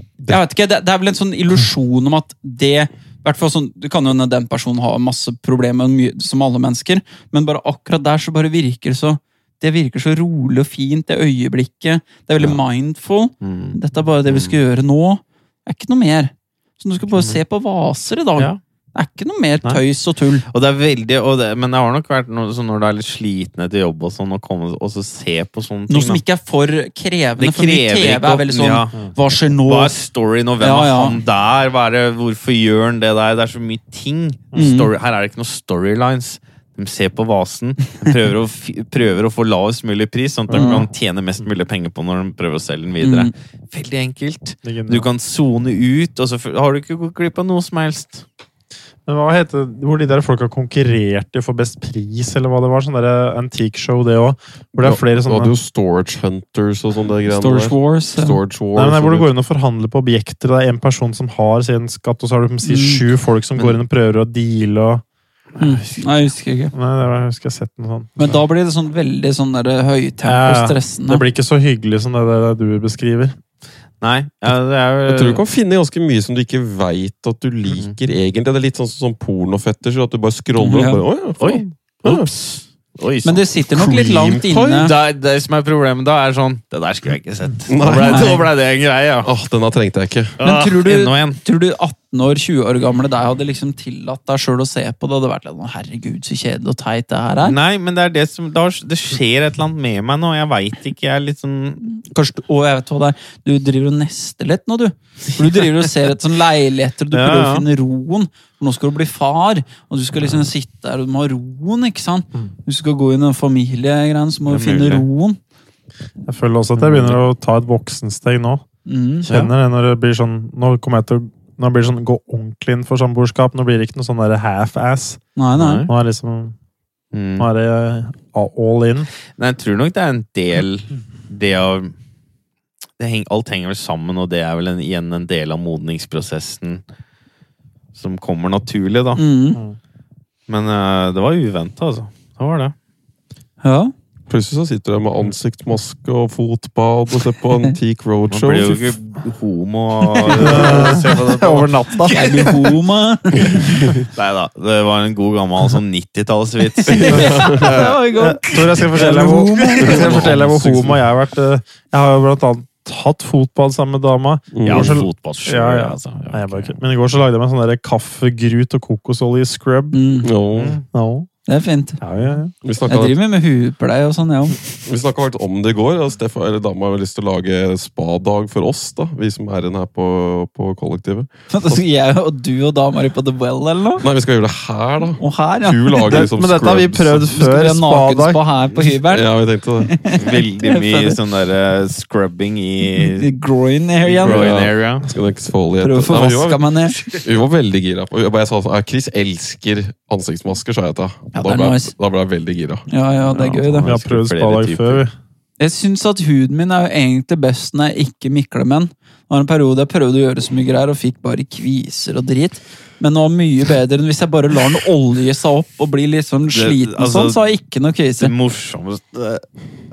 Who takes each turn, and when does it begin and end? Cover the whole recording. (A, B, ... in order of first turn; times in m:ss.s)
0:00.3-0:20.4 A
0:13.4-0:14.6 B
0:20.5-0:26.2 B
0:25.9-0:29.9 A
0:27.4-0:29.0 B
0:29.6-0:48.2 B
0:30.6-0:31.2 A
0:34.5-0:34.9 A
0:40.5-0:40.8 C
0:40.5-0:40.8 A
0:43.0-0:43.3 A
0:44.6-0:45.1 C
0:49.0-0:55.5 C
0:54.8-0:59.3 D
0:57.3-0:58.4 A
0:58.7-1:05.0 C
1:02.6-1:03.0 A
1:05.6-1:06.7 A
1:06.7-1:08.2 C
1:08.2-1:11.2 A
1:10.2-1:13.4 C
1:14.0-1:15.4 B
1:15.1-1:22.3 D
1:20.6-1:21.0 A
1:21.4-1:23.4 B
1:23.2-1:24.9 A
1:23.7-1:24.8 D
1:24.7-1:29.3 B
1:27.7-1:28.4 D
1:27.8-1:28.4 A
1:29.2-1:30.4 D
1:30.4-1:31.4 B
1:30.4-1:37.6 A
1:37.4-1:41.8 B
1:41.9-1:55.4 A
1:47.1-1:47.6 B
1:54.5-1:55.0 B
1:56.2-1:58.6 C
1:56.8-1:57.2 B
1:58.8-1:59.3 A
1:59.2-2:05.2 C
2:05.4-2:05.8 A
2:05.6-2:05.9 B
2:05.8-2:06.5 C
2:07.1-2:07.5 B
2:07.4-2:09.1 C
2:09.4-2:11.9 B
2:13.0-2:16.8 B
2:17.9-2:19.2 B
2:19.2-2:19.6 A
2:20.5-2:22.7 B
2:23.6-2:23.9 A
2:24.3-2:28.9 D
2:28.3-2:32.6 B
2:30.2-2:30.6 A
2:30.4-2:32.5 C
2:32.1-2:33.9 A
2:34.1-2:38.0 B
2:36.8-2:40.1 A
2:36.9-2:37.7 D
2:38.2-2:50.0 C
2:39.6-2:40.3 B
2:39.9-2:41.0 D
2:44.5-2:45.0 D
2:44.6-2:46.8 B
2:49.9-2:50.3 A
2:50.2-2:50.8 D
2:50.5-2:50.8 B
2:50.9-2:51.3 C
2:51.5-2:52.0 A
2:52.0-2:52.5 C
2:52.6-2:53.2 D
2:52.9-2:54.6 A
2:54.8-3:01.8 D
3:01.5-3:04.0 A
3:04.0-3:07.4 D
3:05.2-3:06.2 A
3:06.0-3:08.4 C
3:07.3-3:09.3 A
3:09.1-3:10.0 D
3:09.8-3:11.2 A
3:10.1-3:13.3 B
3:12.9-3:14.5 A
3:14.0-3:15.1 B
3:14.2-3:22.9 D
3:15.8-3:17.0 A
3:21.3-3:21.9 A
3:22.9-3:23.9 A
3:23.2-3:25.0 B
3:23.4-3:25.1 C
3:25.6-3:38.3 A
3:36.5-3:37.4 B
3:38.2-3:39.4 B